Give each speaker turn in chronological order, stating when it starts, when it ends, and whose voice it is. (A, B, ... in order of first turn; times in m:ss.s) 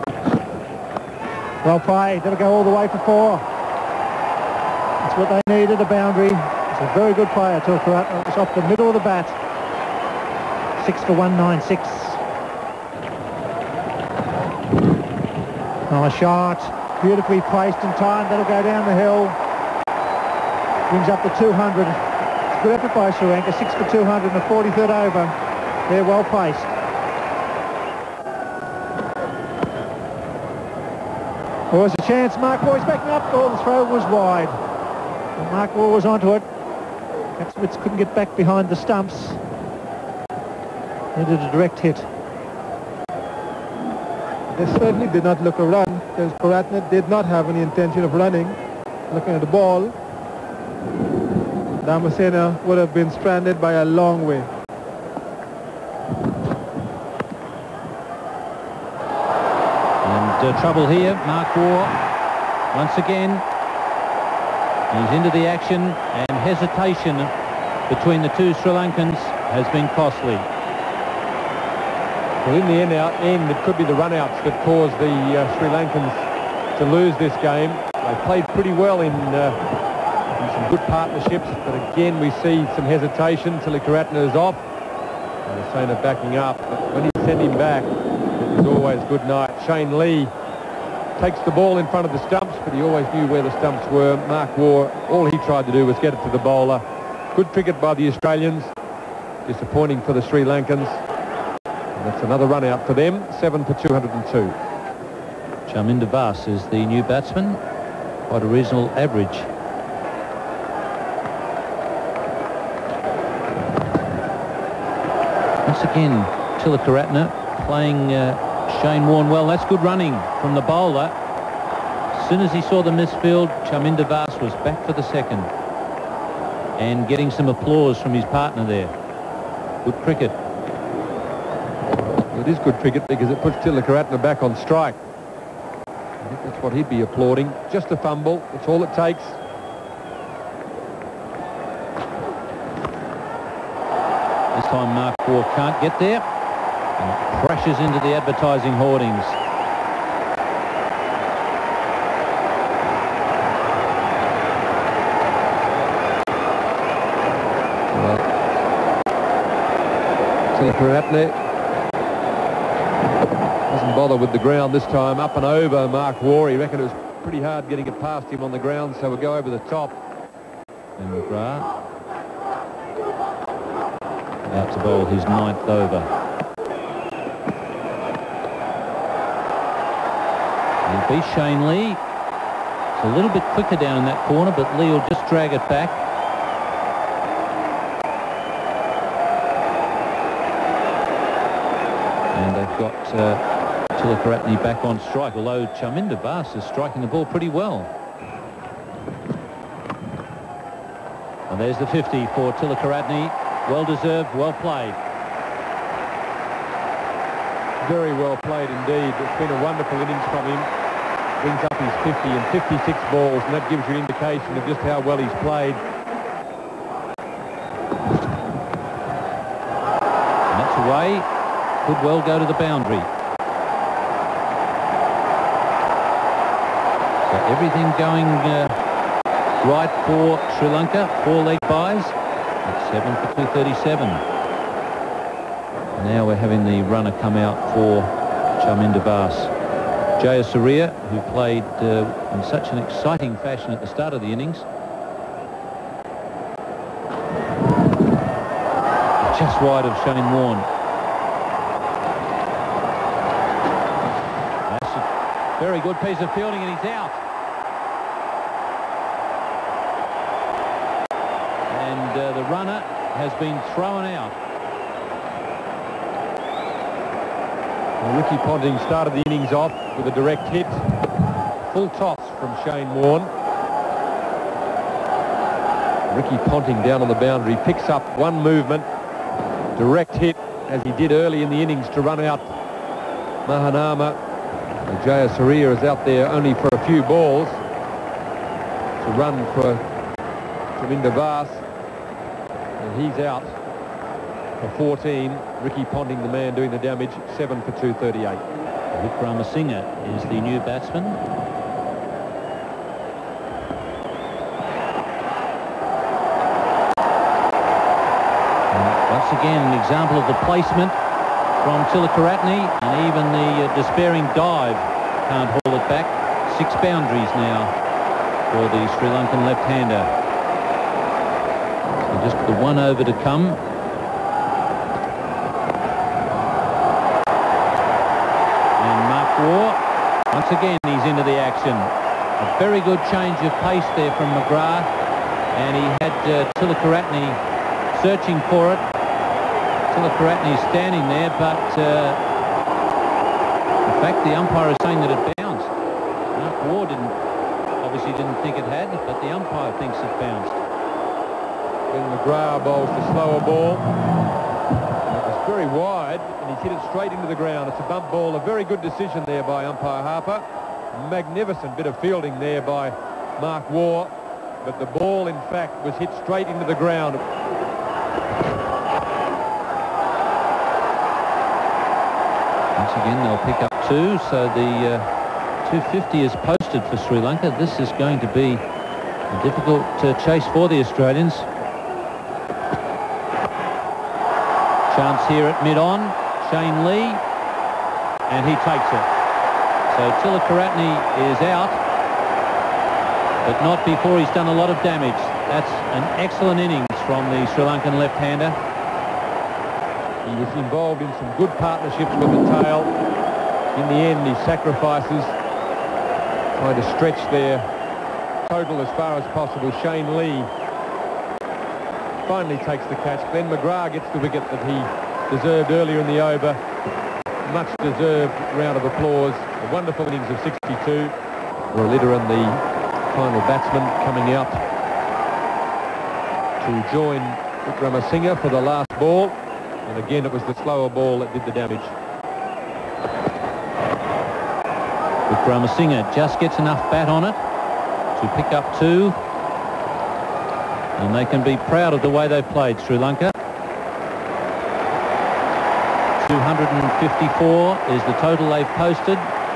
0:01.6-0:03.4 A
0:05.0-0:09.4 A
0:10.8-0:12.2 A
0:15.9-0:19.4 A
0:20.9-0:22.0 A
0:22.6-0:25.4 A
0:25.9-0:26.7 A
0:31.7-0:34.6 A
0:35.4-0:36.5 A
0:37.4-0:39.4 A
0:41.2-0:42.1 A
0:44.6-0:48.6 B
0:49.1-0:50.0 B
0:51.8-0:54.5 B
1:00.0-1:02.0 C
1:02.7-1:03.4 C
1:04.9-1:07.3 C
1:07.9-1:10.5 C
1:12.4-1:19.6 D
1:20.4-1:24.6 D
1:25.5-1:30.3 D
1:31.2-1:38.7 D
1:39.5-1:41.0 D
1:42.0-1:44.6 D
1:45.7-1:47.6 C
1:48.3-1:49.5 C
1:55.6-2:01.1 C
2:02.1-2:05.5 C
2:06.8-2:08.9 C
2:09.8-2:10.4 C
2:12.3-2:15.0 D
2:16.2-2:19.4 D
2:24.5-2:26.2 C
2:27.0-2:29.4 C
2:43.7-2:49.9 D
2:51.0-2:51.7 C
2:54.5-2:56.1 C
3:00.8-3:02.0 C
3:03.0-3:06.0 C
3:12.3-3:13.4 C
3:13.9-3:17.9 C
3:21.5-3:25.0 C
3:27.8-3:30.7 D
3:31.4-3:35.8 D
3:40.5-3:41.3 C
3:41.8-3:43.1 C
3:47.3-3:48.8 C
3:49.6-3:54.2 C
3:56.0-3:59.5 C
4:00.2-4:04.6 C
4:09.3-4:10.7 C
4:14.7-4:15.1 C
4:15.6-4:17.2 C
4:21.7-4:24.4 C
4:28.0-4:30.8 D
4:31.7-4:33.3 D
4:36.1-4:38.9 D
4:39.8-4:42.5 D
4:43.5-4:44.2 D
4:44.9-4:47.6 D
4:49.0-4:49.8 D
4:50.8-4:51.6 D
4:52.8-4:53.6 D
4:54.6-4:58.4 D
4:58.9-5:01.2 C
5:08.7-5:11.0 C
5:11.6-5:17.7 C
5:18.5-5:20.1 C
5:22.0-5:23.6 C
5:28.8-5:29.8 C
5:30.3-5:34.9 C
5:35.6-5:37.4 C
5:37.9-5:38.8 C
5:39.9-5:42.2 C
5:43.8-5:45.7 C
5:46.3-5:47.2 C
5:47.8-5:50.6 C
5:51.9-5:53.9 D
5:55.1-6:07.2 D
6:12.8-6:15.1 C
6:15.6-6:18.6 C
6:19.3-6:21.5 C
6:24.9-6:27.2 C
6:28.3-6:29.1 C
6:29.9-6:31.8 C
6:33.4-6:38.6 C
6:40.2-6:42.9 D
6:43.8-6:45.4 D
6:46.5-6:47.7 D
6:48.5-6:50.5 D
6:52.2-6:56.6 D
6:57.4-7:01.1 D
7:01.7-7:04.6 D
7:06.6-7:11.9 D
7:15.3-7:17.4 C
7:18.2-7:19.2 C
7:21.0-7:23.3 C
7:26.2-7:29.3 C